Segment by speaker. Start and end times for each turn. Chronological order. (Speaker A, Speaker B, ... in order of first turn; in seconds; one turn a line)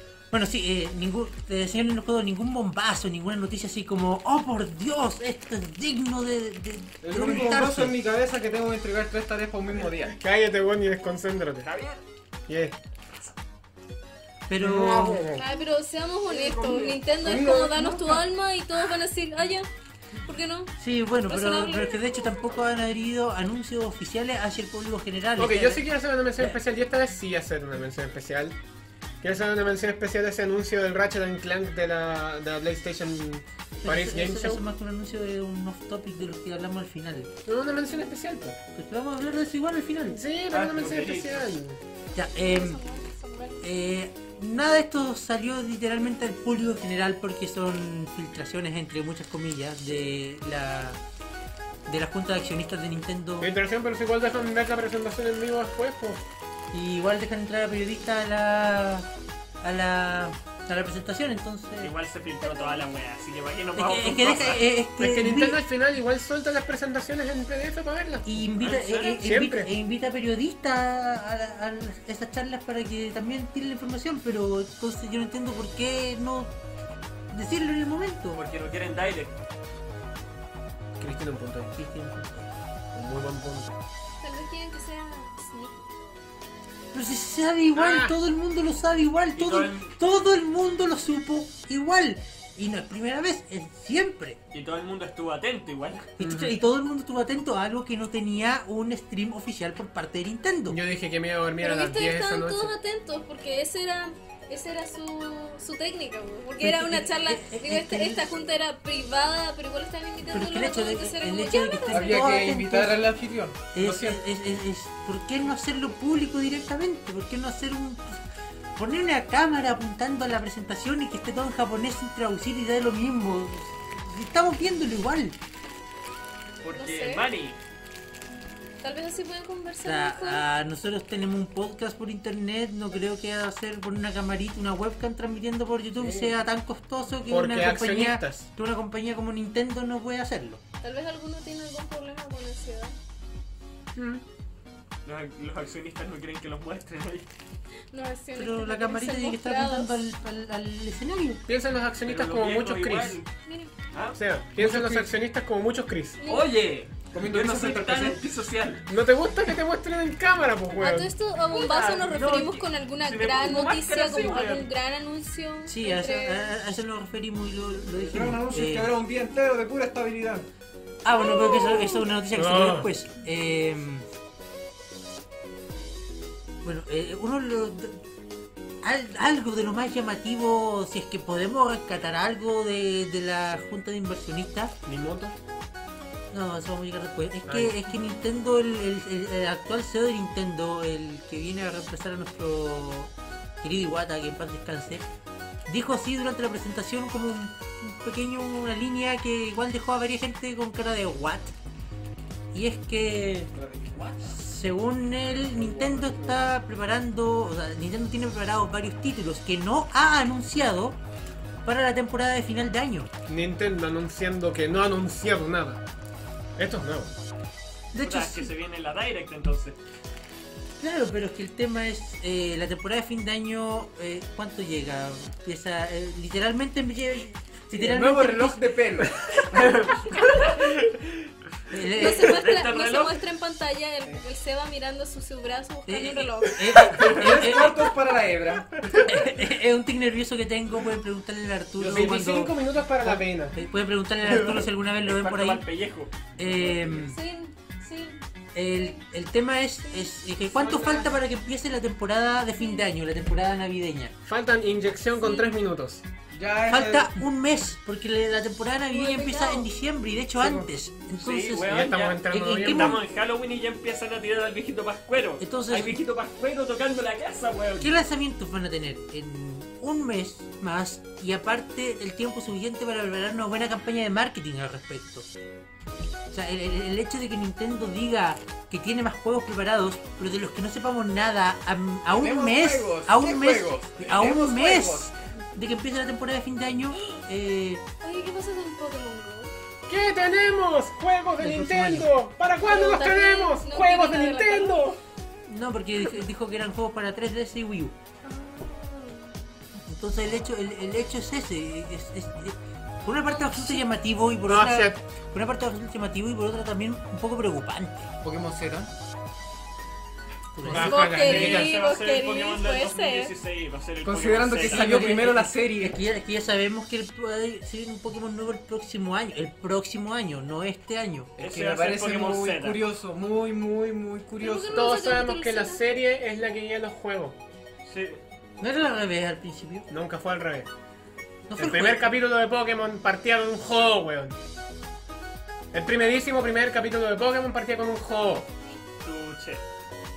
Speaker A: 0.3-8.0
Speaker B: 7.0-10.2
Speaker C: 10.0-11.7
Speaker D: 11.6-12.0
Speaker C: 12.5-12.8
Speaker A: 14.5-15.3
Speaker C: 14.6-15.4
Speaker E: 15.3-19.7
Speaker D: 16.2-17.0
Speaker B: 17.2-18.3
Speaker E: 20.2-20.7
Speaker A: 20.8-26.6
Speaker E: 21.3-22.5
Speaker C: 25.4-28.6
Speaker C: 29.2-34.6
Speaker A: 33.8-37.3
Speaker C: 37.5-38.6
Speaker A: 38.7-40.2
Speaker C: 40.0-41.8
Speaker D: 40.5-41.4
Speaker A: 42.1-42.8
Speaker E: 42.4-43.6
Speaker A: 43.6-51.0
Speaker A: 51.9-53.5
Speaker C: 53.4-56.2
Speaker A: 56.7-59.1
Speaker A: 59.6-61.9
Speaker D: 61.8-64.6
Speaker E: 62.4-62.9
Speaker A: 63.8-65.6
Speaker C: 65.0-68.4
Speaker A: 68.2-76.5
Speaker D: 68.6-69.2
Speaker C: 69.2-69.7
Speaker A: 77.3-78.4
Speaker D: 78.3-79.3
Speaker C: 81.0-81.8
Speaker A: 81.8-82.5
Speaker C: 82.9-83.8
Speaker E: 84.2-85.8
Speaker A: 86.9-94.4
Speaker C: 87.7-88.2
Speaker D: 89.4-89.9
Speaker D: 94.5-96.1
Speaker A: 96.2-100.8
Speaker C: 96.2-96.5
Speaker C: 100.7-102.7
Speaker E: 101.6-112.2
Speaker A: 106.6-108.2
Speaker A: 110.3-113.0
Speaker B: 111.9-114.2
Speaker A: 113.7-118.2
Speaker A: 118.8-125.3
Speaker D: 126.6-127.6
Speaker E: 126.8-127.2
Speaker E: 128.8-130.4
Speaker A: 129.8-140.6
Speaker B: 136.0-136.3
Speaker C: 137.3-138.5
Speaker E: 140.8-142.9
Speaker C: 143.9-144.2
Speaker D: 145.0-147.3
Speaker E: 147.9-150.0
Speaker A: 148.3-151.4
Speaker C: 151.5-153.2
Speaker D: 152.0-153.2
Speaker E: 153.4-153.7
Speaker D: 153.9-154.2
Speaker C: 154.1-156.2
Speaker B: 154.6-155.1
Speaker E: 156.2-156.6
Speaker D: 156.2-158.8
Speaker B: 157.1-158.2
Speaker C: 158.8-161.1
Speaker E: 160.8-166.5
Speaker D: 161.5-164.7
Speaker A: 165.7-168.9
Speaker B: 167.9-170.5
Speaker A: 171.0-174.1
Speaker E: 171.1-172.1
Speaker C: 172.3-172.9
Speaker A: 176.6-178.0
Speaker A: 178.8-184.7
Speaker C: 184.8-185.3
Speaker A: 186.3-195.0
Speaker C: 187.5-187.7
Speaker A: 195.7-201.5
Speaker A: 202.5-211.0
Speaker B: 203.5-204.3
Speaker B: 205.3-206.4
Speaker A: 211.6-213.1
Speaker C: 213.3-215.8
Speaker C: 216.6-217.1
Speaker A: 217.9-218.5
Speaker D: 218.0-219.8
Speaker A: 220.8-228.6
Speaker B: 227.8-229.8
Speaker D: 229.5-231.0
Speaker A: 231.7-232.4
Speaker E: 231.9-237.1
Speaker D: 232.0-233.2
Speaker A: 235.9-237.8
Speaker D: 236.9-237.7
Speaker B: 237.0-239.0
Speaker A: 239.0-245.6
Speaker C: 241.8-243.5
Speaker C: 244.2-244.7
Speaker D: 245.0-246.4
Speaker A: 246.4-247.2
Speaker E: 246.8-249.0
Speaker A: 248.5-254.1
Speaker E: 249.8-250.1
Speaker C: 250.5-251.1
Speaker E: 252.6-252.9
Speaker C: 254.2-256.0
Speaker B: 256.3-257.2
Speaker A: 256.7-263.0
Speaker E: 258.9-259.7
Speaker C: 260.4-260.7
Speaker D: 261.2-268.0
Speaker C: 261.6-263.0
Speaker A: 265.4-266.0
Speaker A: 267.8-275.3
Speaker A: 276.3-287.8
Speaker B: 282.1-285.1
Speaker E: 288.0-289.5
Speaker C: 289.9-295.0
Speaker A: 291.4-292.1
Speaker E: 292.6-294.9
Speaker A: 295.5-297.9
Speaker E: 298.6-299.2
Speaker A: 299.9-308.1
Speaker E: 303.3-303.8
Speaker C: 304.4-305.0
Speaker B: 308.2-308.9
Speaker A: 310.5-311.0
Speaker C: 310.6-311.7
Speaker E: 310.8-313.3
Speaker D: 310.9-314.9
Speaker B: 314.0-316.0
Speaker A: 314.6-321.3
Speaker B: 321.4-325.0
Speaker D: 321.4-322.8
Speaker E: 324.4-325.8
Speaker C: 324.7-327.4
Speaker D: 327.9-328.2
Speaker A: 328.6-329.9
Speaker C: 329.9-330.7
Speaker A: 331.5-332.1
Speaker C: 331.6-334.4
Speaker C: 335.7-338.5
Speaker D: 339.0-339.6